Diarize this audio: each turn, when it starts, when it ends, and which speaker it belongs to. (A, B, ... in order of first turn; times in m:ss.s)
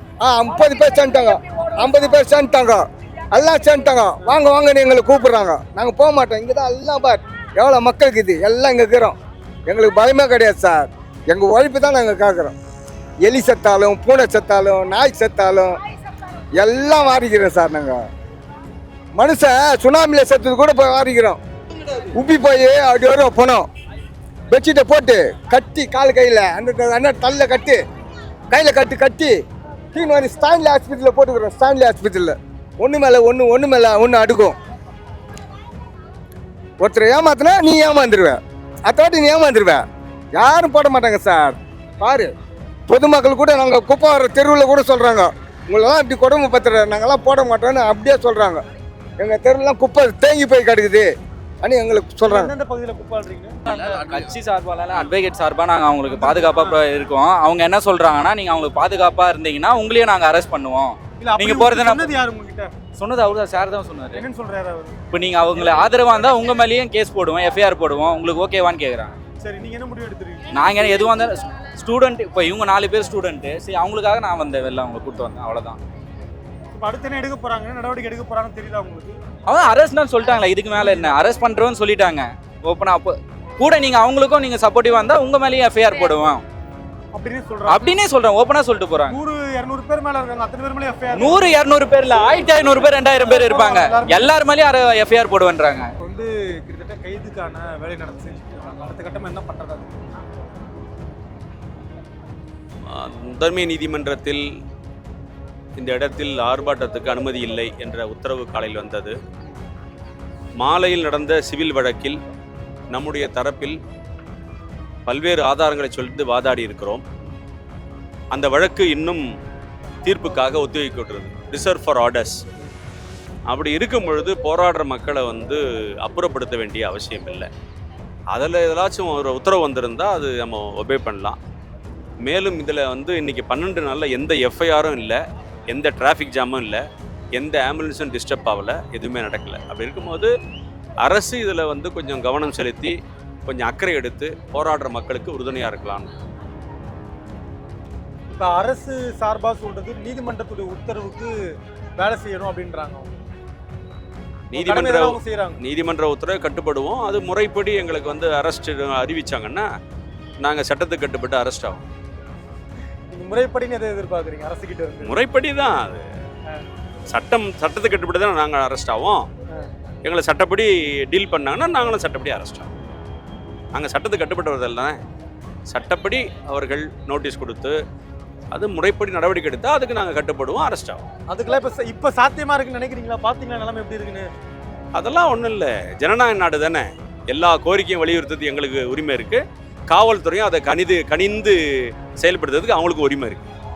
0:00.2-0:09.2 A
0:09.7-0:12.5 A
0:13.2-0:15.7 A
0:16.6-0:18.0 A
0:19.2-0:21.4 A
0:22.2-0:23.6 A
0:24.5-0:27.8 A
0:28.5-0:29.4 A
0:29.9-0:34.6 A
0:36.8-0:39.8 A
0:40.3-0:42.3 A
0:42.9-0:48.6 A
0:49.2-0:51.1 A
0:51.6-0:52.5 A
0:52.3-0:53.6 B
0:53.6-1:02.2 C
0:56.0-0:56.8 B
1:01.2-1:02.7 B
1:03.0-1:04.2 C
1:04.1-1:05.0 B
1:05.1-1:09.1 C
1:09.4-1:10.4 B
1:10.5-1:15.8 C
1:16.7-1:19.2 B
1:19.5-1:26.4 C
1:20.8-1:21.2 B
1:27.1-1:27.9 B
1:27.7-1:29.2 C
1:29.1-1:31.5 B
1:31.1-1:35.9 C
1:32.9-1:34.4 B
1:36.0-1:40.0 B
1:42.9-1:44.4 D
1:45.8-1:49.2 D
1:50.6-1:52.2 D
1:52.9-1:53.8 D
1:55.1-1:57.0 D
1:58.3-1:59.2 D
2:00.0-2:02.4 D
2:03.5-2:07.5 D
2:08.3-2:11.4 D
2:12.2-2:15.2 D
2:15.7-2:16.8 D
2:17.4-2:20.3 D
2:21.0-2:26.1 D
2:28.3-2:31.3 B
2:32.0-2:33.1 B
2:34.5-2:39.7 D
2:34.6-2:35.6 B
2:40.4-2:41.8 D
2:43.1-2:45.1 B
2:45.0-2:46.0 D
2:47.1-2:49.3 D
2:50.0-2:52.7 D
2:53.7-2:55.0 D
2:55.7-2:57.8 D
2:58.5-3:01.0 D
3:01.3-3:04.3 B
3:05.0-3:11.6 D
3:12.2-3:13.4 D